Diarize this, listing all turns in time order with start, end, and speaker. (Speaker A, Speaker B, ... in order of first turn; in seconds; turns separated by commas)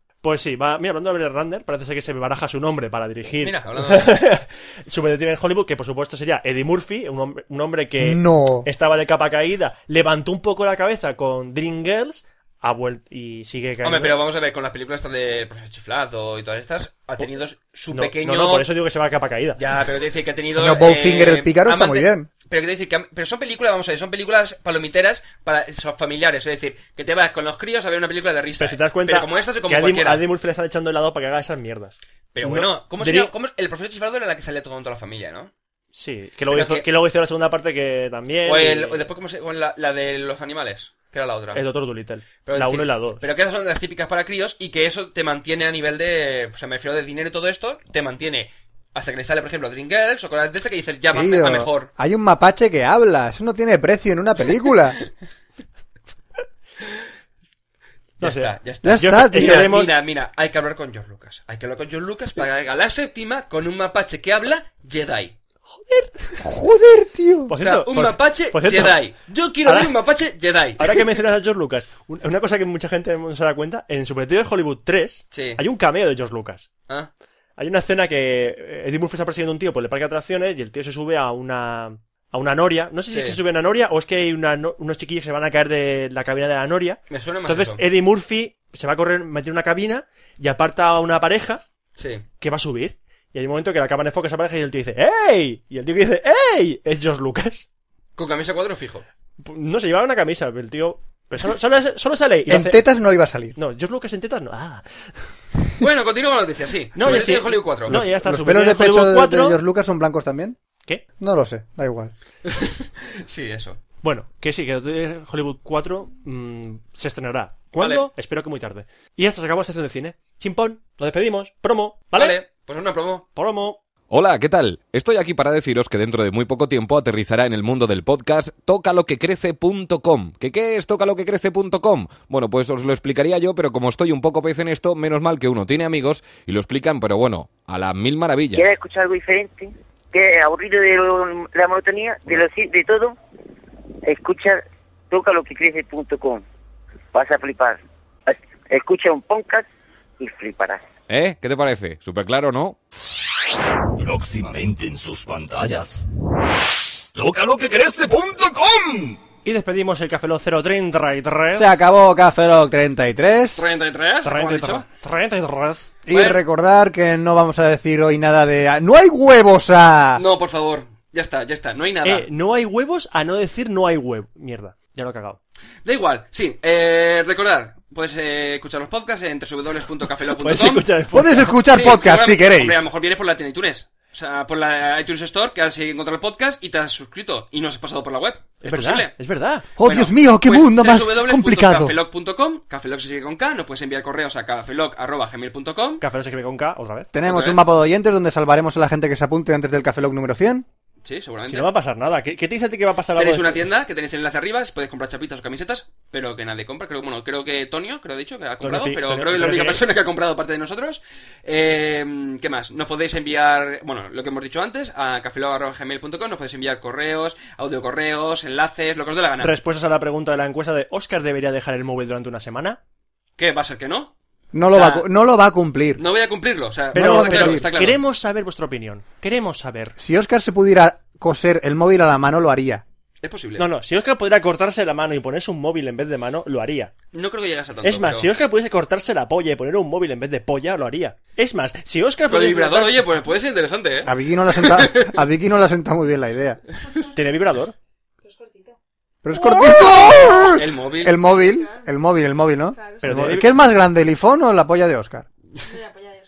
Speaker A: 0.2-14.2, Speaker B: 3.4-4.2, Speaker C: 8.0-8.7, Speaker B: 13.8-18.7, Speaker A: 17.9-19.6, Speaker B: 19.6-30.2, Speaker C: 20.6-22.3, Speaker A: 28.6-33.3, Speaker B: 32.3-35.5, Speaker A: 35.9-39.1, Speaker B: 36.5-36.9, Speaker B: 38.5-41.6, Speaker A: 41.5-43.2, Speaker B: 42.4-51.9, Speaker C: 51.1-55.0, Speaker A: 58.2-59.9, Speaker B: 58.2-65.3, Speaker C: 58.8-59.7, Speaker A: 65.7-66.5, Speaker C: 66.4-67.5, Speaker A: 67.5-69.0, Speaker B: 67.6-71.0, Speaker A: 69.7-70.0, Speaker A: 70.8-76.7, Speaker B: 75.3-75.6, Speaker A: 77.6-91.6, Speaker B: 83.1-83.4, Speaker B: 87.1-87.8, Speaker B: 92.0-92.2, Speaker A: 92.4-97.7, Speaker B: 98.2-99.0, Speaker A: 99.4-102.9, Speaker C: 102.5-103.6, Speaker A: 103.5-105.4, Speaker B: 105.8-108.0, Speaker A: 107.0-109.6, Speaker C: 107.9-110.6, Speaker C: 111.2-112.1, Speaker B: 112.5-113.8, Speaker A: 114.0-122.4, Speaker B: 117.8-118.1, Speaker B: 122.1-123.3, Speaker A: 123.4-123.8, Speaker D: 124.1-138.7, Speaker E: 138.5-143.2, Speaker E: 144.1-146.4, Speaker E: 147.1-149.7, Speaker E: 150.2-150.8, Speaker D: 151.1-152.8, Speaker F: 154.0-156.1, Speaker F: 157.1-159.2, Speaker A: 159.4-161.8, Speaker C: 161.5-163.7, Speaker B: 163.6-164.8, Speaker A: 164.2-166.0, Speaker C: 166.1-170.2, Speaker B: 166.1-166.4, Speaker B: 170.2-172.3, Speaker A: 172.0-175.4, Speaker B: 175.8-180.9, Speaker A: 180.4-181.7, Speaker C: 181.1-182.8, Speaker B: 181.7-189.2, Speaker A: 188.6-189.7, Speaker C: 189.8-191.9, Speaker B: 189.8-196.0, Speaker A: 196.0-197.1, Speaker C: 197.1-200.7, Speaker B: 197.3-197.6, Speaker B: 201.0-201.7, Speaker A: 201.5-203.7, Speaker B: 203.2-219.6, Speaker A: 208.6-209.8, Speaker A: 219.4-222.8, Speaker B: 223.4-224.1, Speaker C: 224.5-226.0, Speaker B: 224.7-225.1, Speaker B: 226.0-228.0, Speaker C: 226.9-227.7, Speaker A: 226.9-230.0, Speaker C: 230.0-232.8, Speaker B: 233.2-233.7, Speaker A: 233.6-236.9, Speaker B: 237.1-238.3, Speaker A: 237.8-243.1, Speaker B: 242.3-245.2, Speaker C: 244.1-246.6, Speaker A: 247.1-247.8, Speaker C: 249.2-255.2, Speaker A: 249.3-250.5, Speaker B: 250.3-251.3, Speaker A: 253.0-253.6